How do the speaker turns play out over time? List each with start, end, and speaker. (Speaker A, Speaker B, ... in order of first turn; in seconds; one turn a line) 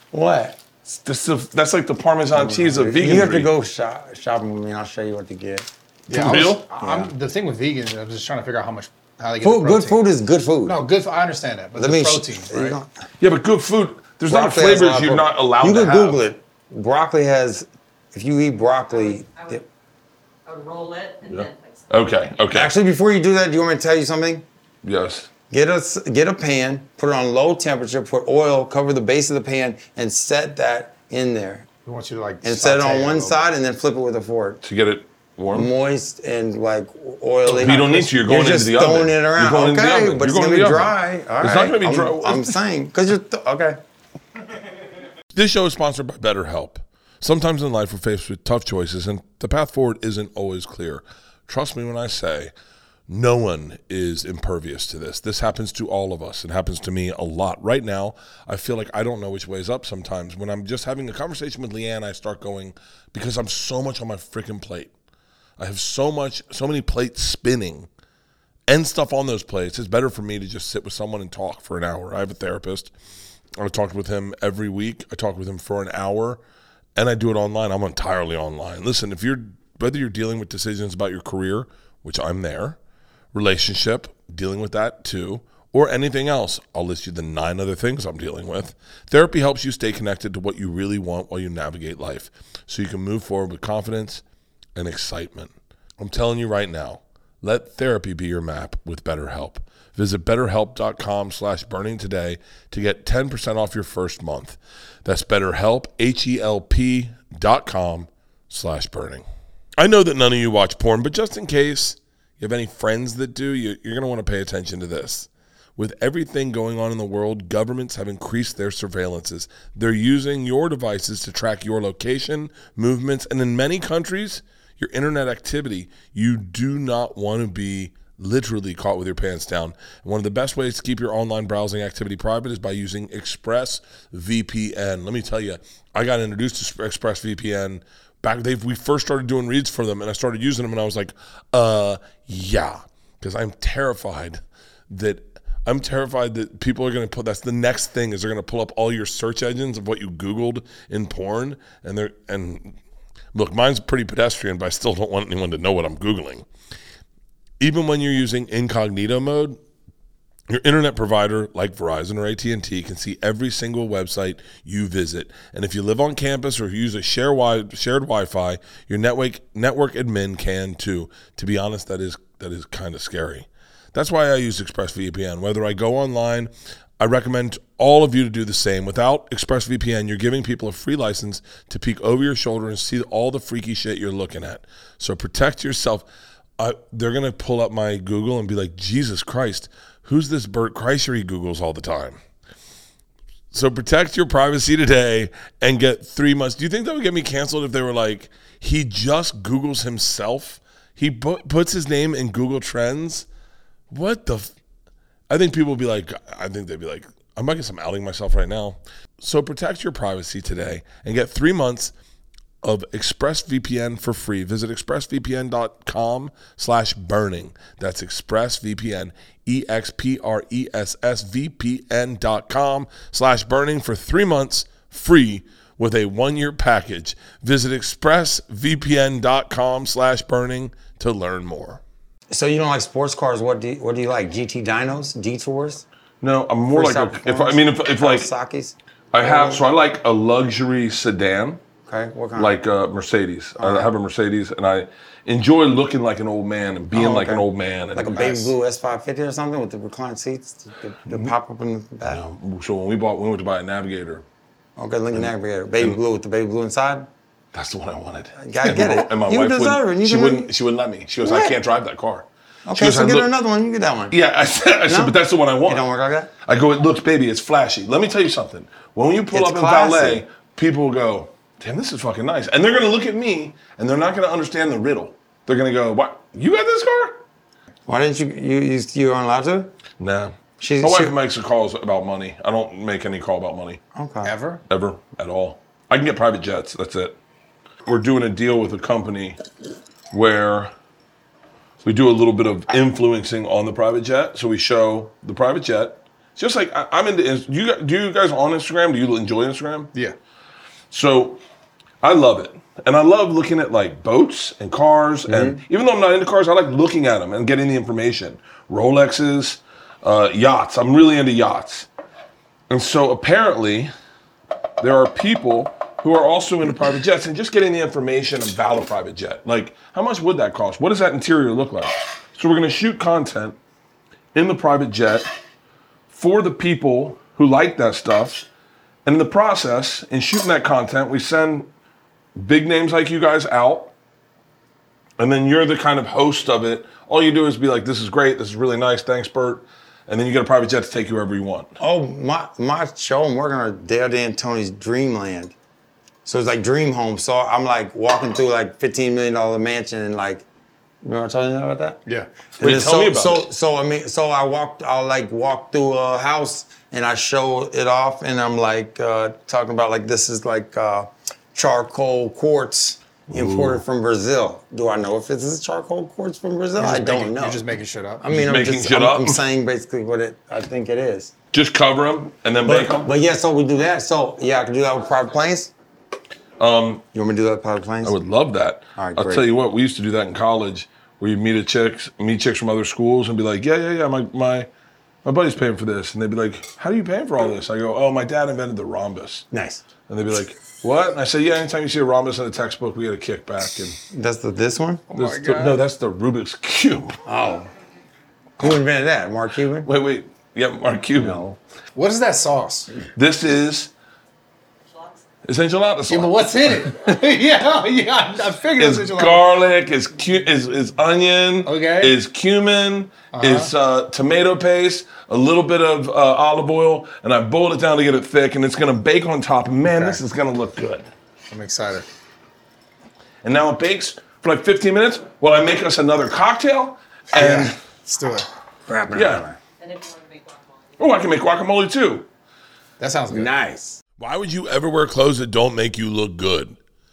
Speaker A: 0.1-0.6
Speaker B: 0.8-3.5
Speaker A: 2.3-5.7
Speaker C: 6.1-10.0
Speaker B: 6.1-6.7
Speaker A: 6.3-7.1
Speaker A: 9.4-10.8
Speaker C: 10.6-12.8
Speaker A: 11.7-12.9
Speaker B: 13.2-16.2
Speaker A: 14.3-19.6
Speaker D: 18.9-19.6
Speaker D: 20.4-21.9
Speaker B: 21.3-22.7
Speaker A: 22.5-24.4
Speaker B: 24.8-25.3
Speaker A: 25.5-31.7
Speaker C: 31.8-33.4
Speaker A: 32.4-34.6
Speaker B: 34.6-35.7
Speaker A: 35.5-43.8
Speaker C: 37.5-38.0
Speaker B: 37.5-42.5
Speaker B: 45.3-52.5
Speaker B: 53.1-64.9
Speaker B: 65.6-67.9
Speaker B: 68.7-72.9
Speaker B: 73.6-76.4
Speaker B: 77.0-82.8
Speaker B: 83.3-94.2
Speaker B: 94.7-109.2
Speaker B: 109.8-152.8
Speaker B: 153.3-156.5
Speaker B: 157.6-159.6
Speaker B: 160.5-186.0
Speaker B: 186.6-192.2
Speaker B: 193.5-203.3
Speaker B: 203.9-204.5
Speaker B: 205.3-211.9
Speaker B: 212.6-231.8
Speaker A: 232.3-235.8
Speaker B: 236.2-238.3
Speaker A: 236.7-239.6
Speaker B: 239.1-241.6
Speaker A: 241.8-242.6
Speaker B: 242.3-248.5
Speaker A: 243.6-243.9
Speaker A: 246.9-252.2
Speaker B: 252.1-254.2
Speaker A: 254.8-257.1
Speaker B: 255.1-256.0
Speaker B: 257.5-263.3
Speaker A: 258.4-260.5
Speaker A: 261.2-261.6
Speaker A: 262.6-264.1
Speaker B: 264.1-265.9
Speaker A: 264.9-266.3
Speaker B: 266.4-277.2
Speaker A: 269.3-270.2
Speaker A: 277.9-279.7
Speaker B: 280.0-283.8
Speaker A: 280.6-281.1
Speaker A: 283.9-284.3
Speaker C: 284.2-284.6
Speaker B: 284.7-287.1
Speaker B: 287.8-289.4
Speaker B: 290.1-290.7
Speaker B: 291.8-299.9
Speaker B: 300.9-301.4
Speaker B: 302.0-311.9
Speaker A: 305.3-305.6
Speaker B: 312.7-313.9
Speaker B: 314.8-323.6
Speaker B: 324.3-325.3
Speaker B: 326.1-328.4
Speaker B: 329.0-331.7
Speaker B: 332.4-333.9
Speaker B: 335.2-341.7
Speaker A: 341.8-345.5
Speaker A: 346.2-350.4
Speaker A: 351.0-352.0
Speaker B: 352.6-353.4
Speaker A: 352.6-367.6
Speaker B: 363.3-363.8
Speaker C: 366.8-368.2
Speaker A: 368.2-371.3
Speaker B: 368.3-369.4
Speaker B: 371.5-373.1
Speaker A: 372.6-375.7
Speaker B: 376.6-377.0
Speaker A: 377.1-378.1
Speaker B: 378.0-384.7
Speaker A: 378.9-379.5
Speaker B: 385.2-389.4
Speaker A: 389.5-389.8
Speaker B: 390.1-394.0
Speaker A: 394.1-395.0
Speaker C: 395.1-395.8
Speaker B: 395.1-397.2
Speaker A: 397.2-397.7
Speaker A: 398.6-399.9
Speaker B: 399.8-401.5
Speaker A: 401.1-401.5
Speaker C: 401.9-402.9
Speaker B: 403.1-403.9
Speaker B: 405.4-406.9
Speaker C: 406.1-409.5
Speaker B: 408.8-421.1
Speaker C: 411.6-412.2
Speaker C: 413.3-413.7
Speaker C: 419.8-420.2
Speaker C: 421.5-422.1
Speaker B: 423.4-427.8
Speaker C: 427.3-428.5
Speaker A: 427.4-427.7
Speaker A: 428.9-429.6
Speaker B: 429.1-429.4
Speaker D: 429.8-431.3
Speaker B: 431.0-432.3
Speaker C: 433.0-433.5
Speaker A: 433.3-434.0
Speaker B: 434.2-436.8